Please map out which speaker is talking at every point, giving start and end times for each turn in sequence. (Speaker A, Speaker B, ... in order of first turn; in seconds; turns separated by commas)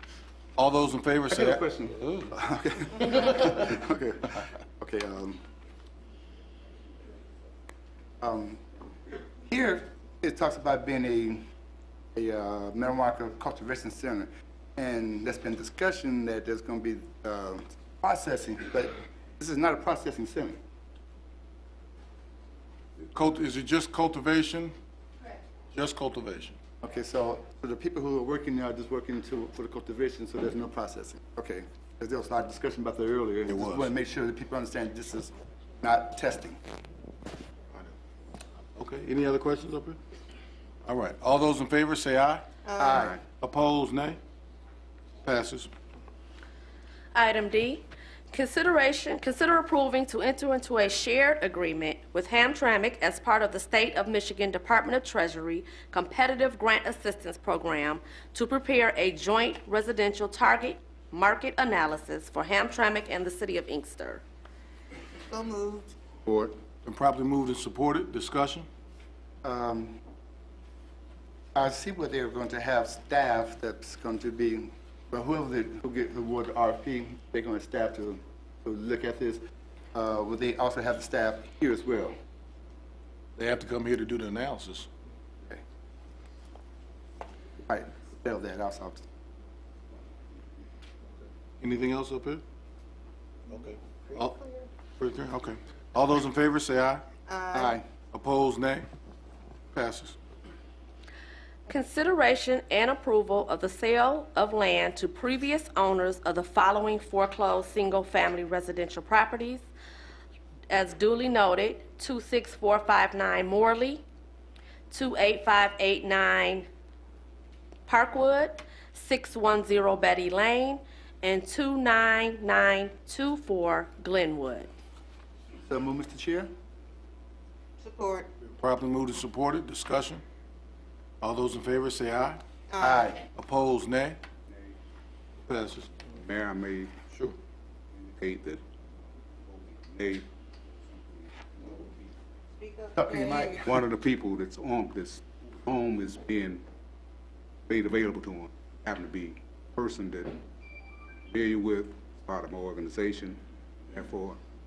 Speaker A: 0.6-2.4, Speaker B: 1.3-5.4, Speaker B: 8.2-8.6, Speaker B: 9.5-11.4, Speaker B: 12.2-20.6, Speaker A: 23.1-24.7, Speaker A: 25.7-26.6, Speaker B: 26.8-36.6, Speaker A: 33.5-33.9, Speaker A: 38.8-40.0, Speaker A: 40.9-42.5, Speaker C: 42.6-43.2, Speaker B: 42.8-43.2, Speaker A: 43.3-44.2, Speaker A: 45.2-45.7, Speaker D: 47.1-64.2, Speaker C: 65.3-65.9, Speaker E: 66.2-66.6, Speaker A: 66.8-68.7, Speaker B: 69.4-70.0, Speaker B: 71.5-79.4, Speaker B: 79.9-82.2, Speaker A: 83.4-84.9, Speaker B: 87.7-89.0, Speaker A: 91.6-92.4, Speaker A: 93.5-97.0, Speaker C: 93.7-94.7, Speaker C: 97.3-97.8, Speaker B: 97.5-97.8, Speaker A: 98.1-98.9, Speaker A: 99.7-100.2, Speaker D: 101.7-109.7, Speaker D: 110.7-114.0, Speaker D: 114.9-116.7, Speaker D: 117.9-124.7, Speaker B: 125.7-126.5, Speaker C: 127.8-128.3, Speaker A: 128.5-130.2, Speaker A: 131.2-132.4, Speaker C: 132.7-133.1, Speaker B: 132.8-133.2, Speaker A: 133.4-134.2, Speaker A: 135.5-136.0, Speaker E: 136.1-136.9, Speaker A: 137.1-137.4, Speaker E: 138.0-138.6, Speaker E: 139.5-140.3, Speaker E: 140.9-142.1, Speaker C: 142.6-143.7, Speaker B: 143.0-143.8, Speaker E: 143.6-146.6, Speaker E: 147.7-150.4, Speaker E: 151.3-154.4